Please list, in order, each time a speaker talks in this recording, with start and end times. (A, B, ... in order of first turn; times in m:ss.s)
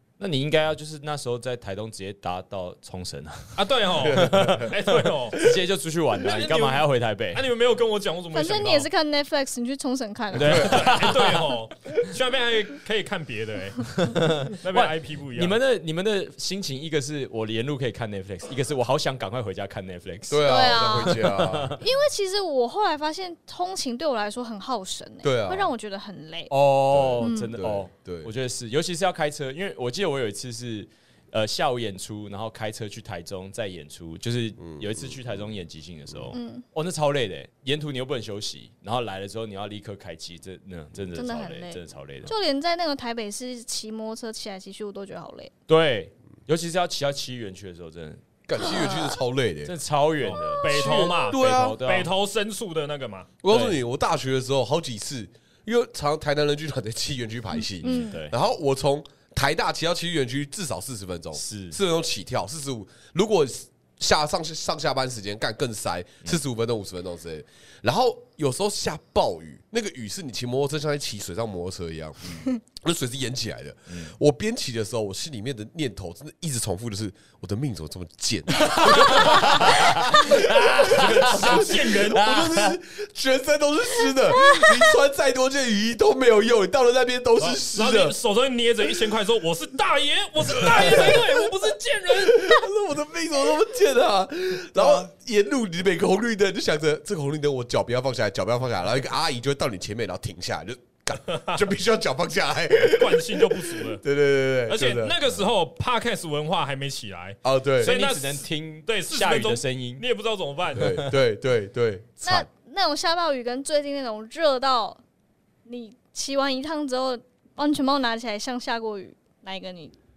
0:00.2-0:07.5 A
0:03.6-0:05.4 B
0:04.0-0:04.7 C
0:06.2-0:08.9 B
0:08.3-0:10.9 D
0:10.3-0:11.5 A
0:10.4-0:11.0 C
0:10.4-0:15.6 B
0:14.0-0:21.8 A
0:20.3-0:21.8 C
0:20.4-0:26.5 D
0:25.2-0:25.7 C
0:26.5-0:42.3 A
0:26.9-0:28.3 C
0:27.2-0:27.6 D
0:34.6-0:35.5 C
0:36.3-0:36.6 D
0:41.1-0:45.5 D
0:45.7-0:48.2 A
0:48.5-0:49.7 C
0:48.6-0:49.2 D
0:49.6-0:52.1 A
0:50.2-0:53.3 B
0:50.3-0:51.2 D
0:50.8-0:51.8 C
0:53.4-1:28.1 C
0:53.5-0:53.8 A
0:57.8-0:58.2 D
0:57.8-0:58.4 A
1:01.3-1:01.8 A
1:13.9-1:14.1 A
1:18.6-1:22.8 A
1:20.8-1:22.3 B
1:24.3-1:24.8 D
1:27.4-1:32.6 B
1:30.6-1:31.3 C
1:32.2-1:45.2 C
1:34.8-1:35.0 A
1:41.3-1:41.6 B
1:42.9-1:44.0 B
1:44.7-1:51.0 B
1:47.4-1:47.9 C
1:47.8-1:50.0 A
1:50.7-1:52.5 C
1:50.8-1:51.1 A
1:52.2-1:55.0 D
1:55.6-1:59.9 D